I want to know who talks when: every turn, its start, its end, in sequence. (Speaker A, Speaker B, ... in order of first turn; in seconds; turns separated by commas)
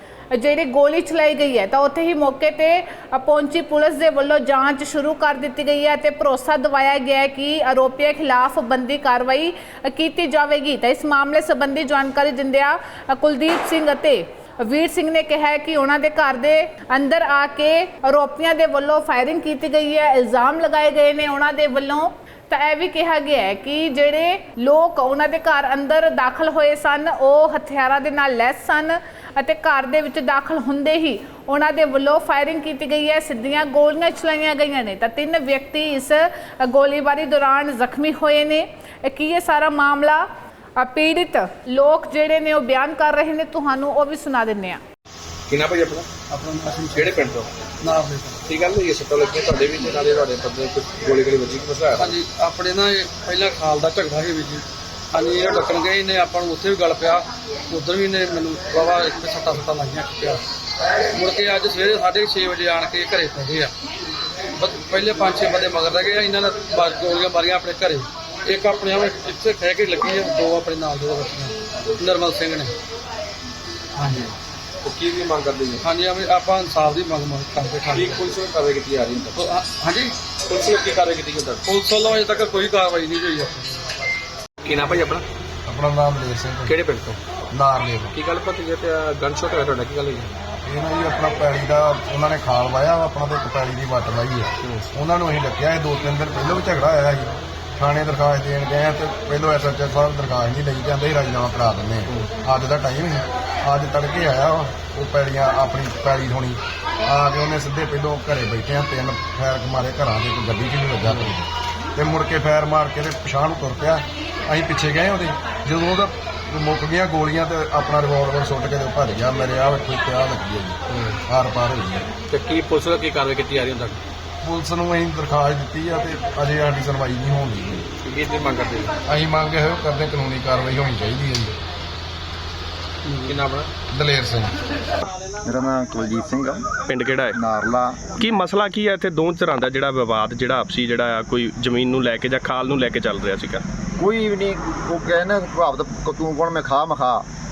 Speaker A: 0.3-44.8, Speaker B: 45.5-46.1, Speaker C: 46.3-48.4, Speaker B: 46.9-47.5, Speaker B: 48.5-52.1, Speaker C: 51.9-60.4, Speaker C: 61.1-63.7, Speaker C: 64.6-72.7, Speaker C: 74.0-74.3, Speaker B: 74.8-75.8, Speaker C: 75.8-78.3, Speaker B: 78.0-79.4, Speaker C: 79.3-80.2, Speaker B: 80.5-81.6, Speaker C: 81.6-83.8, Speaker B: 84.6-85.2, Speaker D: 85.7-86.8, Speaker B: 86.7-87.2, Speaker D: 87.5-88.1, Speaker B: 88.1-90.4, Speaker D: 90.6-122.1, Speaker B: 122.3-124.0, Speaker D: 124.4-127.9, Speaker B: 128.0-128.9, Speaker D: 129.1-131.6, Speaker B: 133.2-133.7, Speaker D: 133.9-134.5, Speaker E: 135.4-136.7, Speaker F: 136.9-137.4, Speaker E: 137.3-138.0, Speaker F: 138.2-143.6, Speaker E: 144.0-147.2